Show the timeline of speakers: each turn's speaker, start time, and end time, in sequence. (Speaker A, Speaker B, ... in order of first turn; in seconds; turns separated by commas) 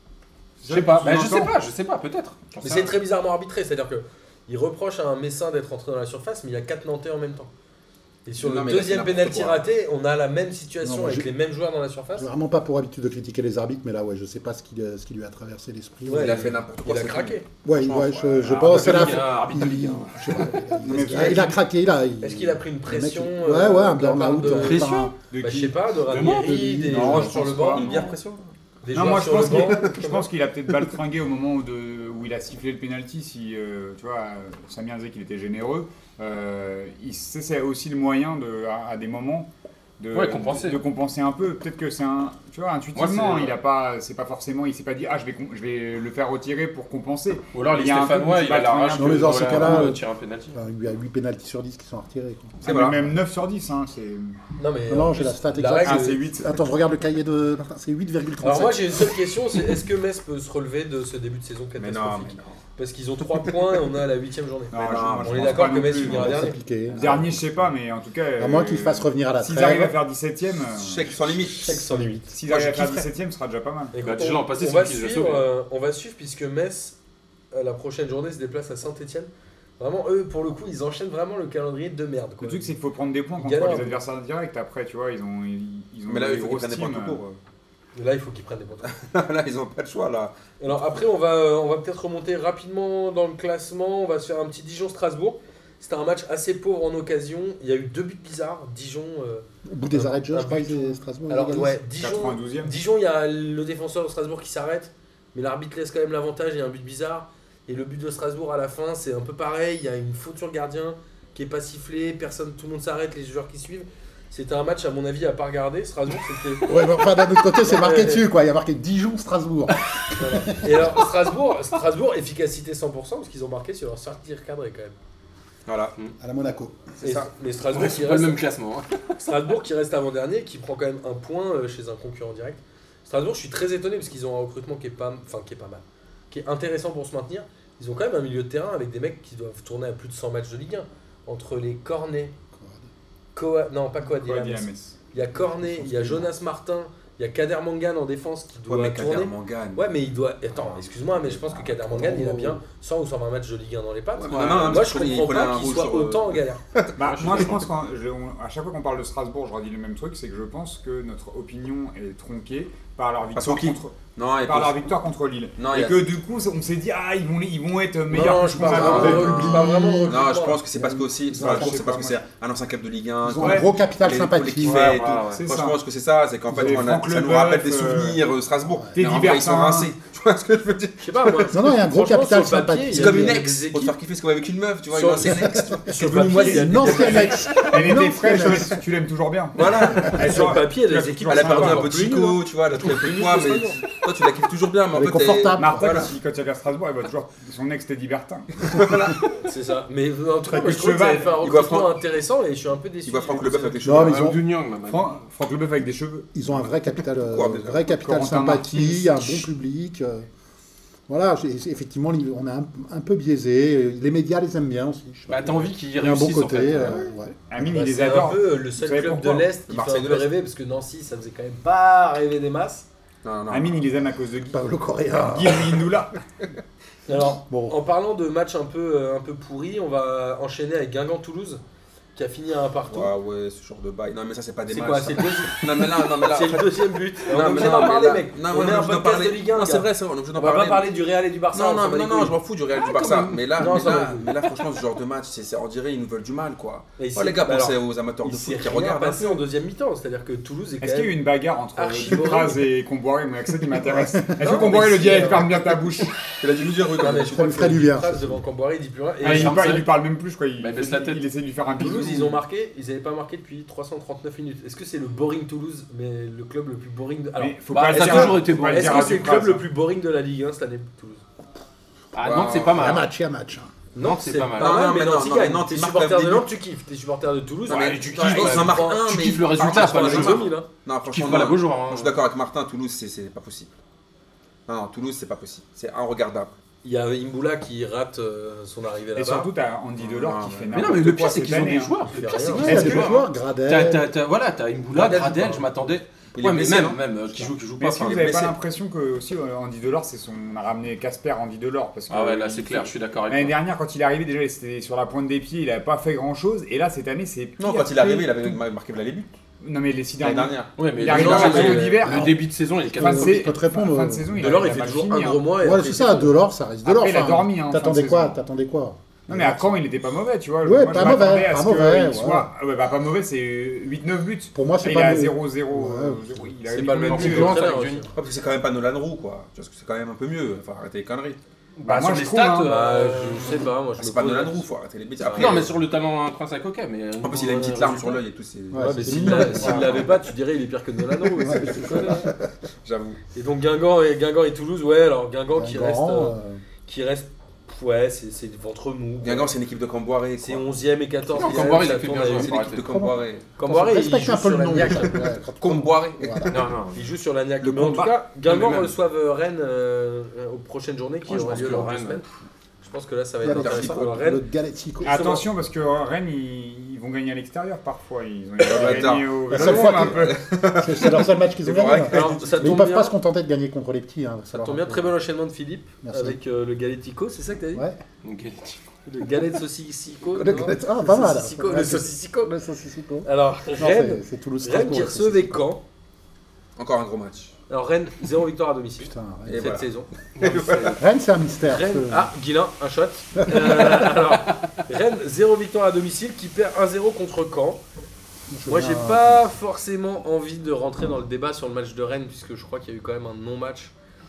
Speaker A: 0.6-1.5, Speaker B: 0.7-2.9, Speaker C: 2.6-7.5, Speaker C: 8.2-12.3, Speaker D: 8.4-9.6, Speaker E: 10.8-11.3, Speaker E: 12.2-16.6, Speaker C: 16.1-17.4, Speaker D: 16.1-19.2, Speaker E: 17.6-25.1, Speaker B: 18.4-20.6, Speaker A: 20.8-21.6, Speaker C: 20.9-21.5, Speaker C: 22.2-28.1, Speaker B: 24.5-25.1, Speaker A: 25.3-25.8, Speaker B: 26.1-26.7, Speaker E: 26.4-27.7, Speaker A: 26.9-28.1, Speaker D: 27.7-28.5, Speaker C: 28.8-30.2, Speaker A: 28.9-49.9, Speaker D: 29.2-30.1, Speaker B: 40.1-40.8, Speaker B: 42.9-43.6, Speaker B: 47.5-50.6, Speaker E: 48.9-50.0, Speaker E: 50.5-53.1, Speaker A: 52.6-54.4, Speaker D: 52.6-53.0, Speaker C: 54.6-56.2, Speaker E: 54.9-59.1, Speaker A: 55.8-56.5, Speaker C: 58.4-66.6, Speaker D: 61.8-62.5, Speaker A: 64.7-71.1, Speaker D: 64.8-65.5, Speaker E: 65.8-67.5, Speaker E: 68.4-70.0, Speaker D: 70.7-71.9, Speaker C: 71.5-72.7, Speaker A: 72.3-73.9, Speaker C: 73.9-77.0, Speaker B: 74.0-75.5, Speaker C: 77.5-82.7, Speaker A: 82.4-87.2, Speaker C: 83.4-84.0, Speaker D: 86.0-87.3, Speaker C: 87.9-88.9, Speaker D: 88.9-90.3, Speaker C: 90.6-118.2, Speaker E: 99.6-101.8, Speaker A: 101.9-102.8, Speaker E: 116.6-120.7, Speaker C: 120.1-125.0, Speaker D: 125.7-125.9, Speaker E: 126.2-127.0, Speaker C: 127.0-128.4, Speaker D: 127.0-127.3, Speaker B: 127.7-129.1, Speaker C: 129.2-142.3, Speaker E: 142.5-142.9, Speaker C: 143.3-156.6, Speaker A: 144.1-145.0, Speaker E: 145.4-146.3, Speaker D: 148.7-149.8, Speaker E: 151.8-152.6, Speaker D: 154.2-157.6, Speaker B: 154.3-154.8, Speaker A: 157.0-169.5, Speaker B: 157.0-157.6, Speaker D: 163.3-164.8, Speaker D: 165.6-166.1, Speaker C: 168.1-170.6, Speaker E: 168.6-171.8, Speaker D: 168.6-181.5, Speaker A: 171.3-172.2, Speaker E: 173.2-175.0, Speaker A: 173.4-173.7, Speaker B: 174.6-175.4, Speaker A: 174.7-175.8, Speaker A: 176.5-178.2, Speaker E: 178.7-179.0, Speaker A: 178.9-179.9, Speaker C: 181.0-183.9, Speaker E: 181.5-183.4, Speaker D: 182.9-187.3, Speaker C: 184.9-187.6, Speaker E: 185.2-188.8, Speaker A: 186.2-192.0, Speaker C: 189.5-193.8, Speaker D: 189.6-190.2, Speaker D: 191.3-196.1, Speaker E: 194.9-196.1, Speaker A: 195.5-198.9, Speaker D: 198.6-199.3, Speaker C: 199.4-203.8, Speaker A: 200.4-201.4, Speaker D: 201.4-201.9, Speaker D: 203.0-204.4, Speaker E: 203.8-204.4, Speaker B: 203.9-205.2, Speaker A: 204.9-206.3, Speaker E: 206.3-210.3, Speaker D: 207.1-207.9, Speaker A: 207.9-209.5, Speaker E: 211.1-217.4, Speaker B: 215.3-217.1, Speaker A: 217.5-219.5, Speaker C: 217.6-222.9, Speaker D: 219.7-220.3, Speaker D: 223.2-223.9, Speaker A: 223.5-224.7, Speaker E: 224.5-225.9, Speaker A: 225.2-226.2, Speaker C: 227.1-231.6, Speaker E: 227.2-227.8, Speaker C: 232.1-233.1, Speaker D: 232.9-240.9, Speaker C: 234.7-242.4, Speaker D: 241.5-249.4, Speaker B: 242.8-243.9, Speaker C: 243.5-244.3, Speaker C: 247.0-251.2, Speaker A: 250.8-256.4, Speaker C: 251.7-252.6, Speaker C: 254.4-255.8, Speaker D: 256.4-257.9, Speaker C: 256.9-259.8, Speaker E: 257.1-258.4, Speaker B: 259.2-259.9, Speaker A: 259.2-262.4, Speaker B: 260.6-261.3, Speaker C: 261.8-271.2, Speaker A: 267.4-269.6, Speaker B: 267.7-269.4, Speaker B: 272.1-273.1, Speaker D: 272.2-272.9, Speaker E: 272.7-273.7, Speaker C: 273.9-280.7, Speaker B: 274.0-274.8, Speaker D: 274.6-276.5, Speaker D: 277.7-283.7, Speaker B: 277.8-280.5, Speaker A: 278.1-278.8, Speaker B: 281.0-282.1, Speaker D: 284.7-286.5, Speaker C: 286.8-289.5, Speaker A: 289.1-292.0, Speaker D: 290.0-291.0, Speaker B: 290.7-298.3, Speaker C: 292.0-293.1, Speaker E: 292.4-294.1, Speaker A: 292.6-293.1, Speaker C: 294.9-295.7, Speaker D: 296.3-298.6, Speaker A: 297.8-308.6, Speaker B: 302.1-303.6, Speaker D: 307.6-309.3, Speaker A: 309.6-312.4, Speaker D: 310.2-311.9, Speaker B: 310.8-313.6, Speaker C: 311.1-312.0, Speaker E: 312.1-312.4, Speaker A: 312.9-315.5, Speaker E: 312.9-314.6, Speaker C: 314.4-316.4, Speaker E: 315.6-319.8, Speaker A: 316.8-318.4, Speaker A: 319.3-327.6, Speaker E: 320.6-322.5, Speaker E: 324.5-326.5, Speaker C: 326.6-328.1, Speaker B: 327.0-328.1, Speaker D: 328.1-331.4, Speaker B: 331.8-333.6, Speaker A: 331.8-332.8, Speaker C: 332.6-334.7, Speaker D: 334.0-335.8, Speaker C: 335.2-335.6, Speaker B: 335.2-338.2, Speaker D: 337.2-340.2, Speaker E: 338.7-340.0, Speaker C: 338.8-342.2, Speaker B: 339.6-340.0, Speaker D: 341.2-343.2, Speaker E: 341.4-342.3, Speaker C: 343.3-349.6, Speaker E: 345.5-346.6, Speaker D: 349.2-353.5, Speaker C: 350.4-352.5, Speaker B: 351.3-352.9, Speaker E: 352.8-356.5, Speaker C: 353.6-355.3, Speaker D: 355.6-356.7, Speaker B: 356.5-357.0, Speaker C: 356.9-362.2, Speaker A: 357.6-358.1, Speaker B: 358.4-358.9, Speaker B: 361.2-362.2, Speaker C: 362.8-364.4, Speaker E: 363.4-365.4, Speaker D: 363.4-364.3, Speaker C: 365.0-365.4, Speaker A: 365.0-370.4, Speaker D: 368.6-372.7, Speaker E: 368.7-375.1, Speaker C: 372.1-373.1, Speaker C: 374.5-377.9, Speaker E: 376.0-376.4, Speaker E: 377.7-378.0, Speaker B: 378.2-378.8, Speaker C: 379.1-382.5, Speaker E: 380.3-385.6, Speaker C: 383.2-385.8, Speaker D: 386.8-387.5, Speaker C: 387.7-390.1, Speaker E: 389.0-389.8, Speaker D: 389.5-389.9, Speaker B: 390.4-391.0, Speaker D: 390.4-391.0, Speaker E: 390.9-392.3, Speaker C: 391.7-397.8, Speaker E: 393.4-394.0, Speaker E: 398.5-399.5, Speaker C: 398.7-403.9